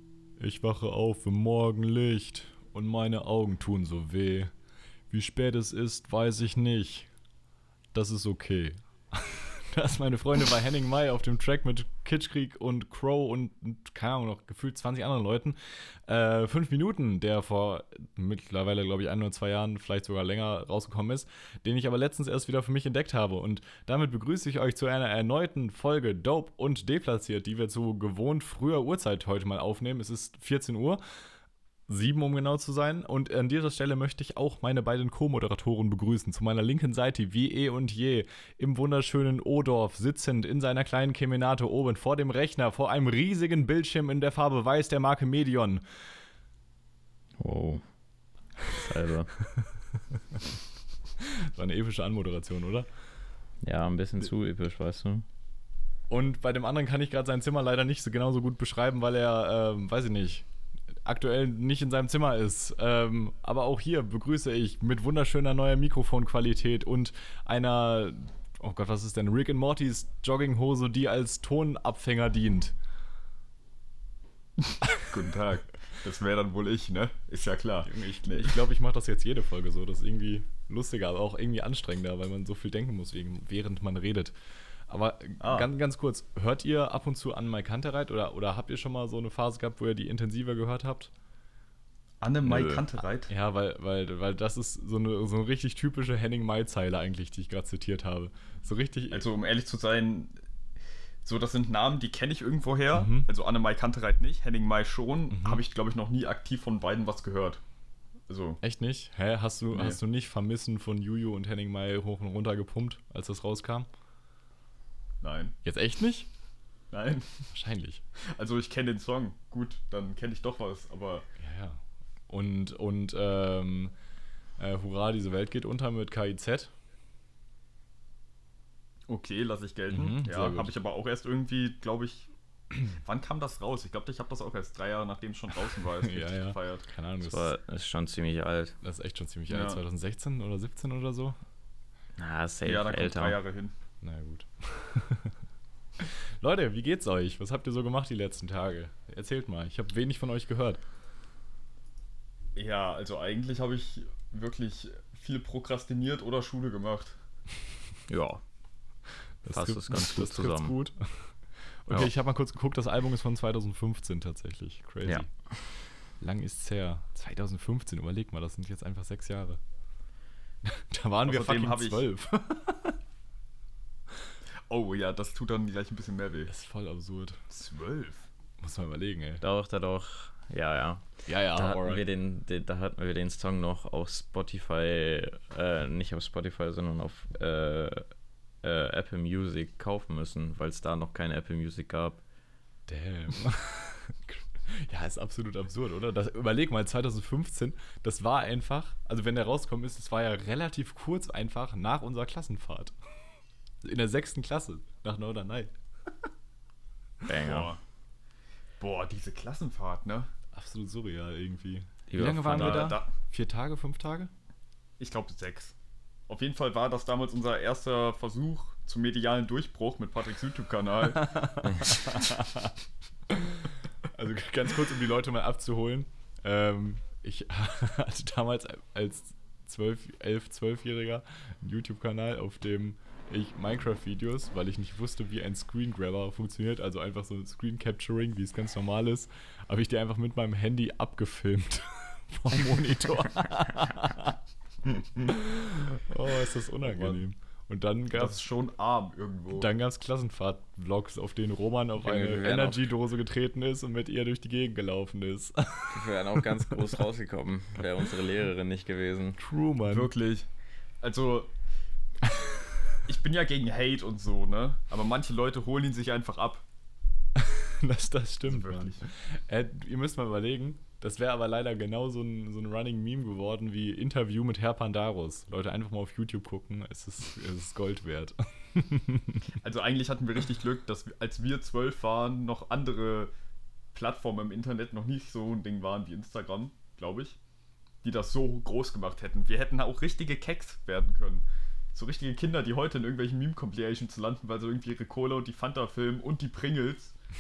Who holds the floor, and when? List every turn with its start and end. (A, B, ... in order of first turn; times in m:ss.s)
0:00.4-0:04.5 A
0:05.1-0:07.1 A
0:07.9-0:31.0 A
0:31.9-0:45.8 A
0:47.4-0:47.8 B
0:48.7-0:49.3 B
0:49.6-0:50.4 A
0:51.2-0:52.9 A
0:53.6-0:55.3 B
0:56.1-1:00.5 A
1:01.0-1:12.8 A
1:15.1-1:18.6 C
1:17.9-1:24.4 A
1:24.9-1:31.1 A
1:25.4-1:25.7 C
1:32.2-1:33.3 C
1:32.5-1:32.9 B
1:33.3-1:39.2 A
1:39.1-1:40.4 C
1:41.2-1:47.6 C
1:42.9-1:43.3 A
1:45.3-1:45.6 A
1:48.3-1:48.6 C
1:48.6-1:53.9 A
1:49.7-1:50.0 C
1:55.2-1:55.5 C
1:55.6-1:56.3 A
1:56.9-1:57.5 C
1:57.5-1:58.0 A
1:58.2-2:01.3 C
2:01.4-2:03.9 A
2:04.6-2:06.7 A
2:09.1-2:12.3 C
2:09.9-2:10.7 A
2:12.9-2:16.8 C
2:16.0-2:17.5 A
2:17.2-2:18.8 B
2:18.8-2:21.4 A
2:19.5-2:19.8 C
2:22.2-2:23.4 B
2:22.6-2:23.7 C
2:24.0-2:25.4 A
2:26.0-2:30.8 A
2:32.6-2:37.2 C
2:38.1-2:38.4 B
2:39.4-2:41.3 A
2:39.5-2:40.8 B
2:41.9-2:45.3 A
2:45.1-2:45.6 B
2:46.2-2:49.6 A
2:50.7-2:53.0 A
2:51.3-2:52.1 C
2:54.7-2:56.5 C
2:56.5-2:57.5 A
2:57.5-2:58.3 C
2:58.6-2:59.4 A
2:59.4-3:08.1 B
3:01.3-3:02.0 A
3:08.6-3:12.2 B
3:12.9-3:22.9 A
3:23.8-3:25.7 A
3:27.2-3:27.7 B
3:27.4-3:27.8 C
3:28.8-3:30.3 C
3:30.5-3:34.3 A
3:32.1-3:33.0 B
3:32.5-3:33.1 C
3:35.0-3:35.8 C
3:36.3-3:41.3 C
3:41.2-3:42.7 A
3:43.3-4:08.4 A
4:06.8-4:07.2 C
4:08.2-4:09.7 C
4:09.5-4:16.9 A
4:12.0-4:12.8 B
4:15.9-4:19.4 B
4:19.4-4:20.1 A
4:19.9-4:20.5 C
4:21.0-4:21.5 C
4:22.3-4:22.5 A
4:23.1-4:26.6 C
4:27.4-4:39.5 A
4:28.4-4:29.0 C
4:39.6-4:43.3 C
4:43.9-4:47.4 C
4:48.0-4:57.2 C